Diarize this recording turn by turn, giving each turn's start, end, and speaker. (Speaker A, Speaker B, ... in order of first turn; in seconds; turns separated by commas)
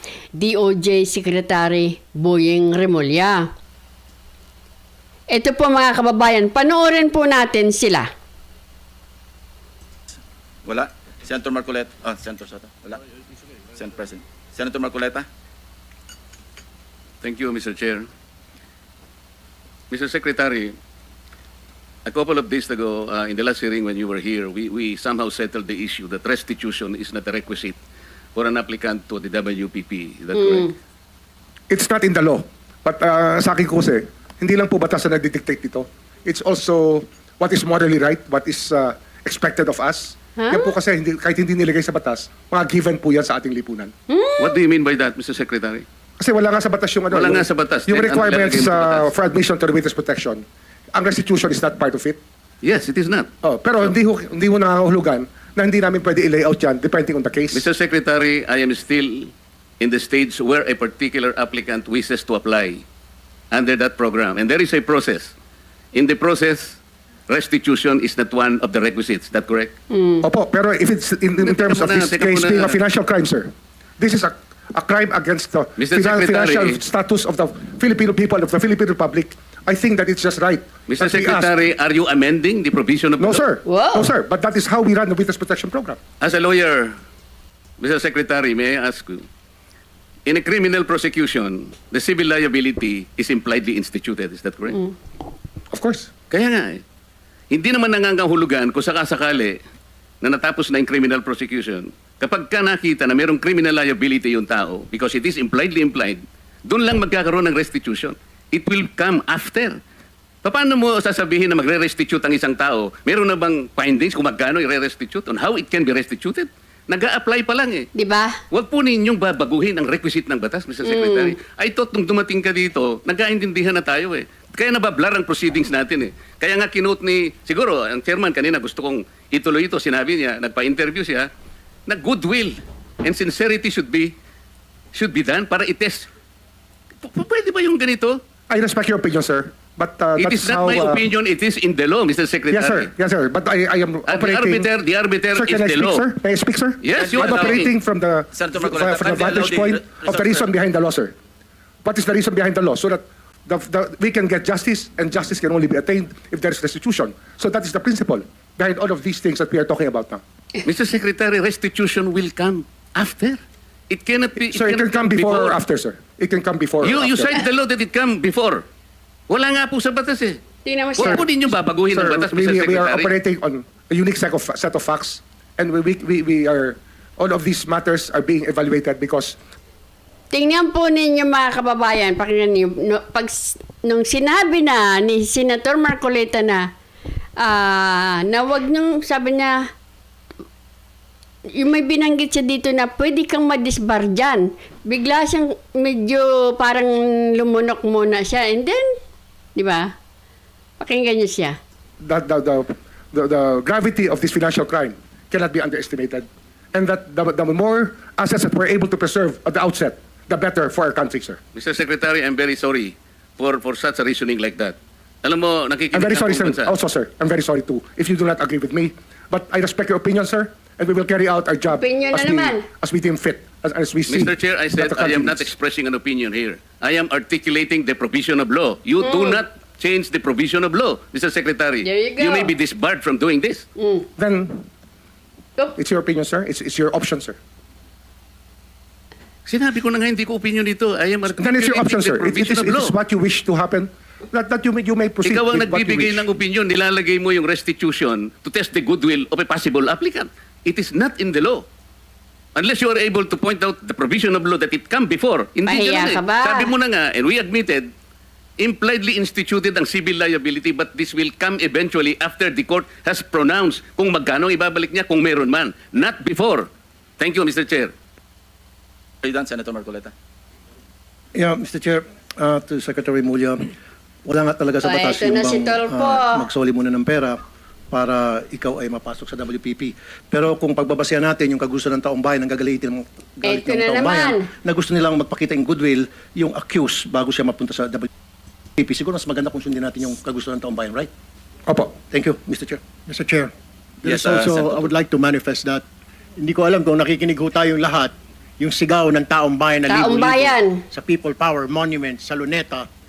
Speaker A: 0.3-3.5, Speaker A: 5.3-8.1, Speaker B: 10.6-13.0, Speaker B: 13.7-15.3, Speaker C: 17.2-18.1, Speaker C: 19.9-20.8, Speaker C: 22.1-27.8, Speaker C: 28.3-30.7, Speaker A: 30.3-30.7, Speaker D: 31.7-43.9, Speaker A: 40.4-40.7, Speaker A: 44.1-44.5, Speaker C: 44.4-45.8, Speaker D: 46.2-52.2, Speaker C: 47.1-49.1, Speaker C: 52.6-53.3, Speaker D: 53.4-57.7, Speaker C: 57.5-62.8, Speaker C: 63.5-65.3, Speaker C: 65.9-66.8, Speaker C: 67.3-69.8, Speaker A: 69.9-70.2, Speaker D: 70.2-81.5, Speaker C: 71.4-72.8, Speaker C: 75.8-76.8, Speaker C: 80.9-83.4, Speaker D: 83.2-86.0, Speaker A: 83.7-84.1, Speaker C: 86.2-87.0, Speaker C: 87.8-89.2, Speaker C: 90.2-94.8, Speaker D: 95.7-96.1, Speaker C: 96.3-96.8, Speaker C: 97.5-99.6, Speaker C: 100.2-109.8, Speaker C: 110.4-117.9, Speaker A: 117.9-118.4, Speaker C: 118.5-131.3, Speaker A: 120.8-121.3, Speaker C: 131.9-134.1, Speaker C: 134.9-136.1, Speaker C: 137.0-138.2, Speaker D: 138.5-141.0, Speaker C: 140.2-142.9, Speaker D: 142.5-144.7, Speaker C: 144.1-146.0, Speaker D: 145.3-151.1, Speaker C: 146.8-147.7, Speaker B: 146.9-147.7, Speaker B: 148.3-150.5, Speaker D: 151.8-160.2, Speaker C: 160.6-163.4, Speaker C: 163.9-165.6, Speaker D: 164.4-167.3, Speaker C: 166.8-168.6, Speaker C: 169.3-170.4, Speaker A: 170.6-171.2, Speaker C: 171.0-173.1, Speaker D: 171.0-179.3, Speaker A: 180.3-186.7, Speaker A: 187.4-189.7, Speaker A: 191.5-199.0, Speaker A: 199.5-199.9, Speaker A: 200.8-201.6, Speaker D: 202.0-211.4, Speaker C: 211.5-216.7, Speaker D: 215.9-225.5, Speaker A: 221.7-222.7, Speaker C: 224.1-233.7, Speaker A: 229.0-229.4, Speaker A: 231.8-232.5, Speaker A: 233.8-234.1, Speaker D: 234.2-234.7, Speaker D: 235.8-237.4, Speaker C: 239.5-242.9, Speaker D: 241.4-246.2, Speaker C: 245.2-251.6, Speaker C: 252.6-257.9, Speaker A: 255.7-256.7, Speaker C: 258.6-267.9, Speaker B: 269.2-270.1, Speaker E: 271.3-273.7, Speaker E: 274.2-288.1, Speaker A: 274.8-276.4, Speaker A: 283.4-284.5, Speaker E: 288.8-291.1, Speaker D: 291.7-291.9, Speaker E: 292.1-292.8, Speaker F: 293.1-293.5, Speaker F: 294.0-295.8, Speaker B: 294.0-294.9, Speaker F: 296.4-302.9, Speaker A: 299.9-300.8